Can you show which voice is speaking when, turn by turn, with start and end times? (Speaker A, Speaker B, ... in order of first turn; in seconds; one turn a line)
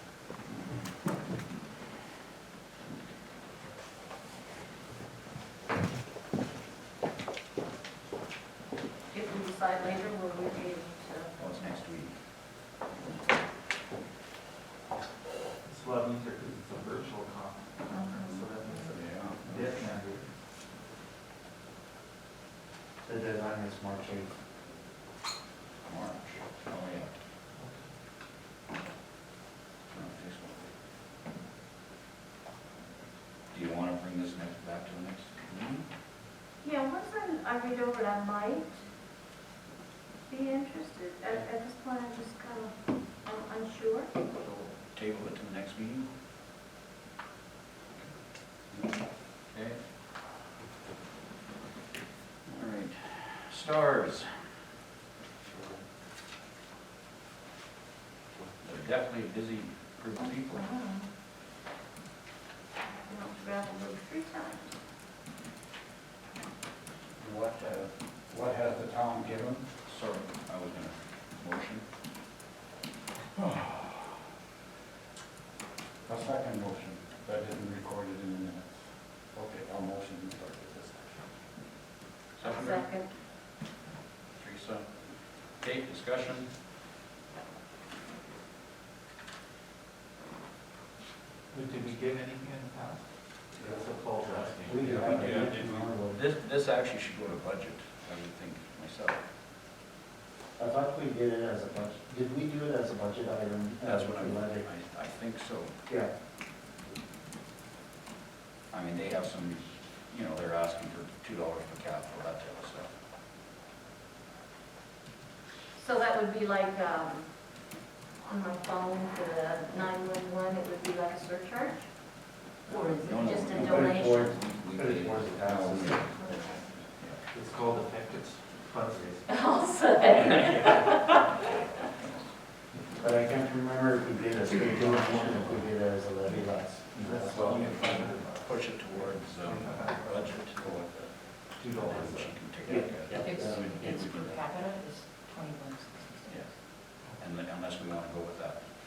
Speaker A: 0.5-0.8
Speaker B: 9.1-11.3
Speaker A: 11.4-12.1
Speaker C: 15.6-20.3
Speaker B: 17.9-18.5
Speaker A: 18.9-19.4
Speaker D: 23.0-24.3
Speaker A: 25.8-27.1
Speaker A: 29.9-30.7
Speaker A: 33.5-35.9
Speaker B: 36.6-38.8
Speaker B: 40.3-44.1
Speaker A: 44.8-46.1
Speaker A: 49.5-49.8
Speaker A: 52.4-54.4
Speaker A: 58.6-60.6
Speaker B: 60.2-61.1
Speaker B: 62.9-64.7
Speaker E: 67.2-69.7
Speaker A: 69.8-71.8
Speaker E: 76.1-81.1
Speaker A: 82.3-82.9
Speaker B: 82.4-83.1
Speaker A: 84.3-85.0
Speaker A: 85.5-86.5
Speaker C: 91.5-93.0
Speaker C: 93.6-95.1
Speaker E: 94.3-95.5
Speaker D: 94.7-96.2
Speaker A: 94.9-99.2
Speaker D: 100.6-104.7
Speaker A: 103.8-105.7
Speaker A: 108.7-112.9
Speaker B: 115.7-121.9
Speaker B: 122.6-124.3
Speaker A: 122.7-126.1
Speaker D: 123.6-126.2
Speaker B: 126.2-126.7
Speaker C: 127.3-129.2
Speaker B: 129.3-131.2
Speaker A: 130.1-132.3
Speaker D: 133.0-137.8
Speaker C: 134.7-135.6
Speaker C: 137.0-140.4
Speaker A: 137.5-144.4
Speaker C: 141.6-142.4
Speaker D: 142.7-143.6
Speaker F: 143.2-146.4
Speaker A: 146.3-146.5
Speaker A: 147.1-148.6